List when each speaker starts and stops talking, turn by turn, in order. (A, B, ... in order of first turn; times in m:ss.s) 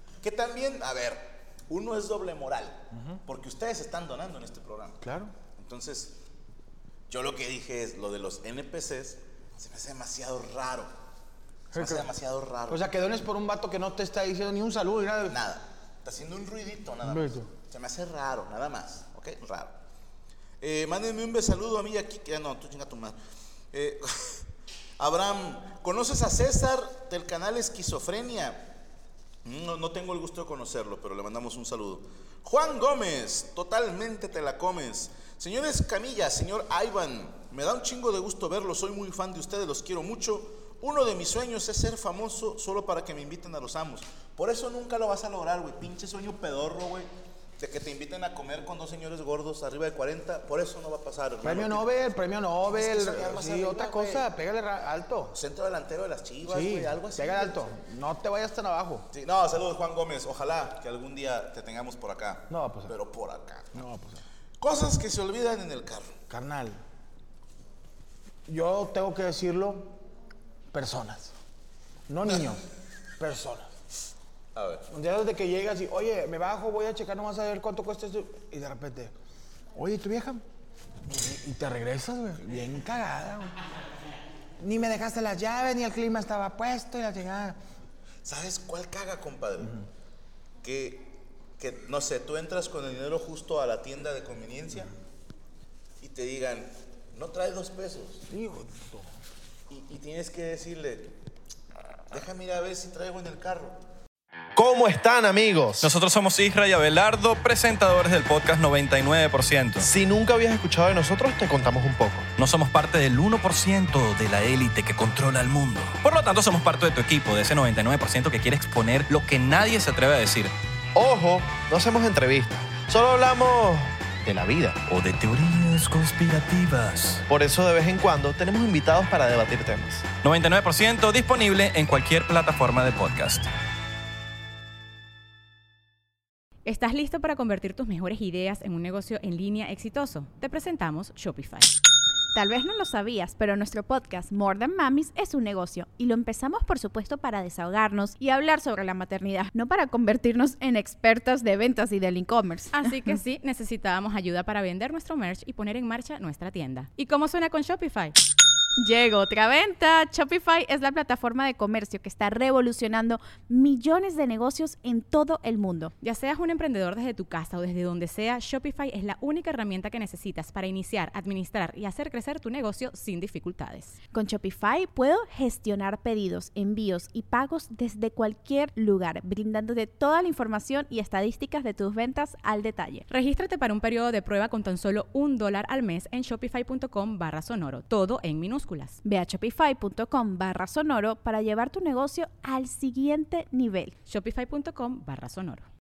0:00.2-0:05.0 A
0:02.9-0:03.2 B
0:05.0-0:05.3 B
0:05.5-0:06.2 A
0:07.1-0:10.9 A
0:11.7-0:12.1 B
0:11.7-0:12.8 A
0:12.7-0:15.4 B
0:15.3-0:19.8 A
0:17.0-0:17.5 B
0:20.6-0:23.2 A
0:23.7-0:24.5 A
0:25.0-0:28.7 A
0:29.4-0:51.9 A
0:51.4-0:55.4 B
0:52.7-0:54.3 A
0:55.3-0:57.7 A
0:56.4-0:59.1 B
0:59.1-1:03.8 A
1:02.5-1:03.0 B
1:03.7-1:04.2 B
1:04.6-1:06.1 A
1:06.3-1:06.8 B
1:08.5-1:10.0 B
1:10.7-1:11.4 B
1:12.1-1:12.7 B
1:13.2-1:13.8 B
1:14.6-1:14.9 A
1:14.9-1:19.1 B
1:19.8-1:20.4 B
1:21.1-1:23.6 B
1:24.6-1:27.6 B
1:28.2-1:29.8 A
1:30.6-1:34.9 A
1:36.0-1:38.3 A
1:38.3-1:39.1 B
1:39.7-1:41.2 A
1:42.1-1:43.8 A
1:44.6-1:45.9 C
1:45.8-1:49.9 D
1:49.8-1:52.3 C
1:52.4-2:00.5 D
2:01.0-2:04.8 C
2:04.9-2:07.2 D
2:07.3-2:10.1 C
2:10.2-2:13.5 D
2:16.7-2:21.7 E
2:22.3-2:33.1 F
2:32.7-2:38.2 E
2:38.8-2:45.9 F
2:46.0-2:54.0 E
2:54.1-3:03.1 F
3:03.1-3:09.0 E
3:09.0-3:14.0 F
3:14.1-3:15.7 E